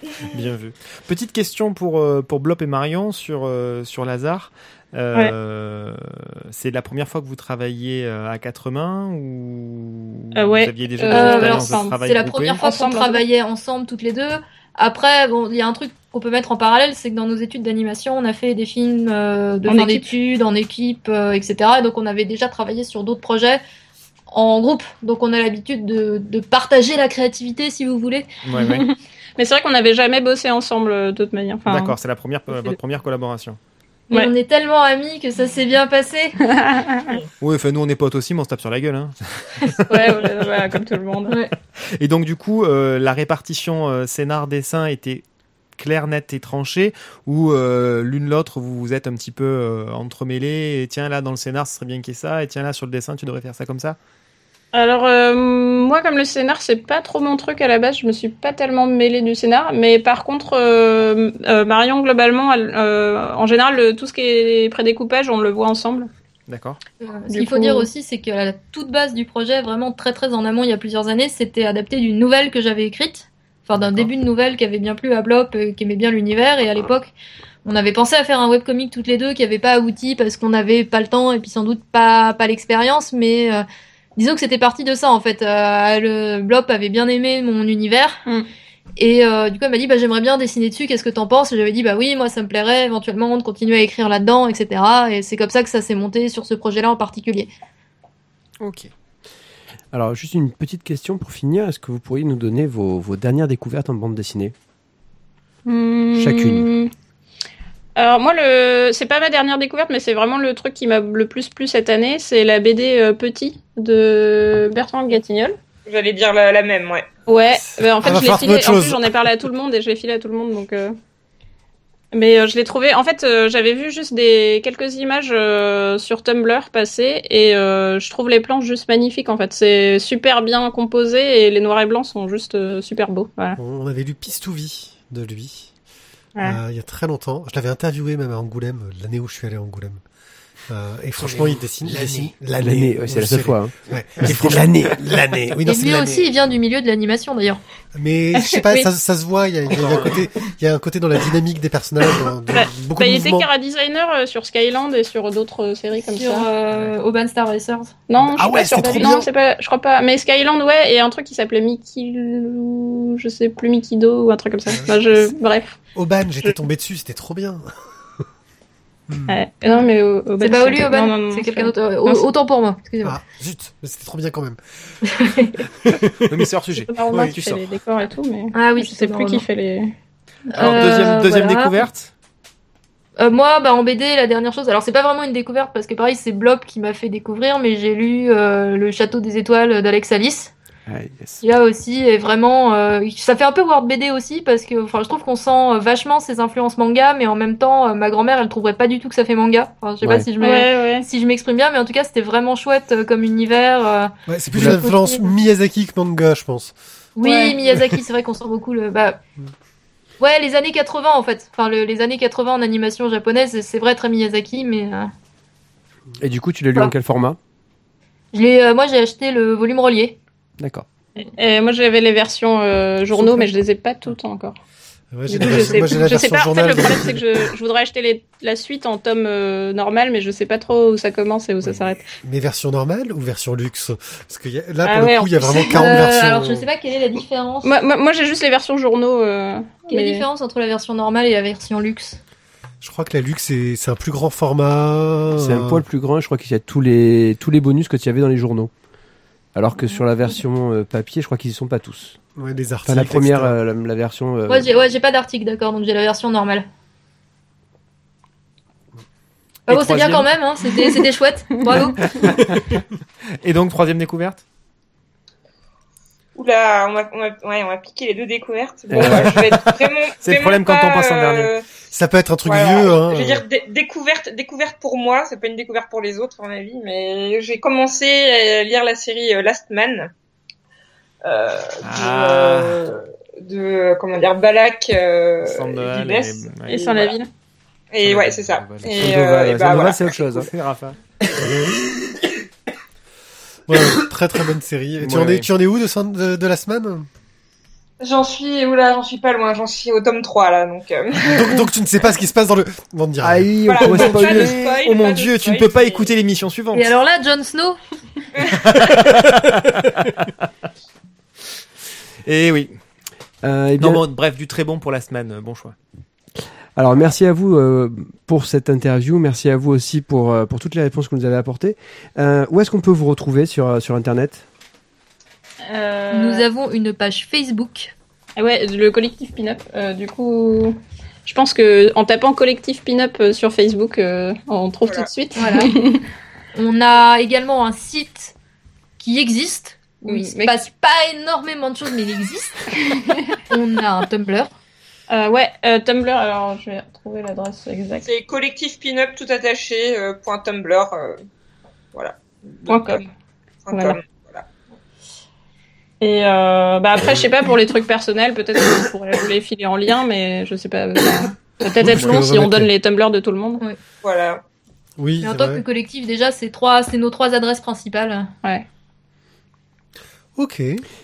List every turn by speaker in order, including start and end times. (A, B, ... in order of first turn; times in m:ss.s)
0:00.2-0:12.6 A
0:10.3-0:13.2 B
0:11.1-0:23.6 C
0:19.7-0:20.1 B
0:24.3-0:28.3 C
0:28.4-0:28.8 A
0:28.5-0:32.0 B
0:31.7-0:33.6 A
0:34.1-0:36.4 C
0:36.4-0:37.2 B
0:37.4-0:40.5 A
0:39.9-0:41.4 B
0:41.9-0:45.2 A
0:45.8-0:54.0 A
0:54.7-1:06.1 B
1:06.5-1:06.8 A
1:07.0-1:17.1 C
1:07.3-1:07.9 B
1:13.8-1:14.1 A
1:17.6-1:23.6 C
1:24.2-1:28.2 C
1:29.0-1:37.5 C
1:38.6-1:38.9 A
1:39.9-1:44.5 D
1:45.7-1:46.9 B
1:46.2-1:46.7 D
1:48.0-1:55.6 B
1:55.9-1:57.1 E
1:57.3-2:01.0 B
1:57.6-1:59.1 F
2:02.1-2:13.6 B
2:13.6-2:15.7 F
2:16.4-2:20.0 F
2:20.7-2:26.3 F
2:21.2-2:22.3 A
2:22.6-2:25.1 D
2:25.7-2:27.6 C
2:28.0-2:33.5 F
2:28.4-2:28.9 B
2:29.8-2:30.2 A
2:32.5-2:36.5 B
2:36.0-2:37.9 C
2:38.1-2:45.8 B
2:38.2-2:39.3 F
2:44.7-2:45.3 F
2:46.0-2:48.2 F
2:49.3-2:52.3 B
2:50.4-2:53.2 C
2:53.0-2:54.6 F
2:55.0-2:55.5 C
2:55.8-2:56.5 F
2:56.2-2:57.6 A
2:56.9-2:59.9 B
2:58.5-2:59.4 C
3:00.5-3:01.7 C
3:00.6-3:02.1 A
3:00.6-3:01.1 B
3:03.2-3:10.5 C
3:10.9-3:11.4 D
3:11.4-3:25.3 C
3:20.4-3:21.1 B
3:24.3-3:26.7 F
3:27.2-3:29.2 C
3:27.2-3:27.6 B
3:30.2-3:35.1 C
3:36.2-3:37.4 D
3:38.3-3:40.2 C
3:40.6-3:40.8 D
3:41.2-3:44.6 B
3:43.1-3:43.5 C
3:45.1-3:47.5 F
3:45.3-3:52.1 B
3:52.2-3:56.7 F
3:54.8-3:55.8 B
3:55.7-3:57.7 C
3:57.6-4:00.3 B
3:59.9-4:02.2 C
4:02.8-4:05.8 F
4:05.3-4:08.7 D
4:09.5-4:12.2 D
4:09.8-4:10.0 C
4:12.4-4:13.6 F
4:12.9-4:14.7 D
4:14.5-4:16.7 C
4:19.7-4:20.3 A
4:19.7-4:22.0 C
4:21.6-4:21.9 B
4:22.1-4:22.8 A
4:23.4-4:24.4 A
4:26.4-4:31.7 E
4:28.9-4:29.6 D
4:28.9-4:29.4 A
4:30.2-4:31.5 A
4:31.9-4:33.4 F
4:32.4-4:40.1 E
4:41.2-4:47.2 E
4:41.8-4:42.8 A
4:45.4-4:46.8 A
4:46.7-4:47.3 B
4:47.9-4:50.1 E
4:48.0-4:49.1 A
4:48.9-4:50.5 D
4:50.1-4:51.0 A
4:53.7-4:57.1 F
4:55.0-4:55.5 A
4:58.0-5:01.6 E
5:01.2-5:04.3 F
5:03.2-5:04.7 D
5:03.7-5:06.1 E
5:03.8-5:06.9 A
5:06.7-5:07.8 C
5:08.4-5:08.7 E
5:08.8-5:10.4 A
5:12.2-5:12.8 A
5:13.4-5:14.0 D
5:13.8-5:15.8 A
5:16.8-5:24.4 D
5:25.7-5:26.5 B
5:26.1-5:27.9 C
5:28.4-5:36.0 B
5:34.8-5:35.1 E
5:35.4-5:35.7 C
5:36.6-5:38.3 C
5:39.0-5:42.7 C
5:40.0-5:40.6 B
5:42.9-5:43.4 B
5:43.5-5:44.5 C
5:45.1-5:48.0 B
5:48.0-5:51.2 E
5:51.9-5:53.1 E
5:52.7-5:53.1 B
5:53.6-5:54.5 E
5:53.7-5:54.0 B
5:56.0-6:03.6 B
6:01.8-6:02.7 F
6:04.0-6:04.4 E
6:05.0-6:05.6 F
6:05.2-6:08.3 C
6:10.4-6:10.8 F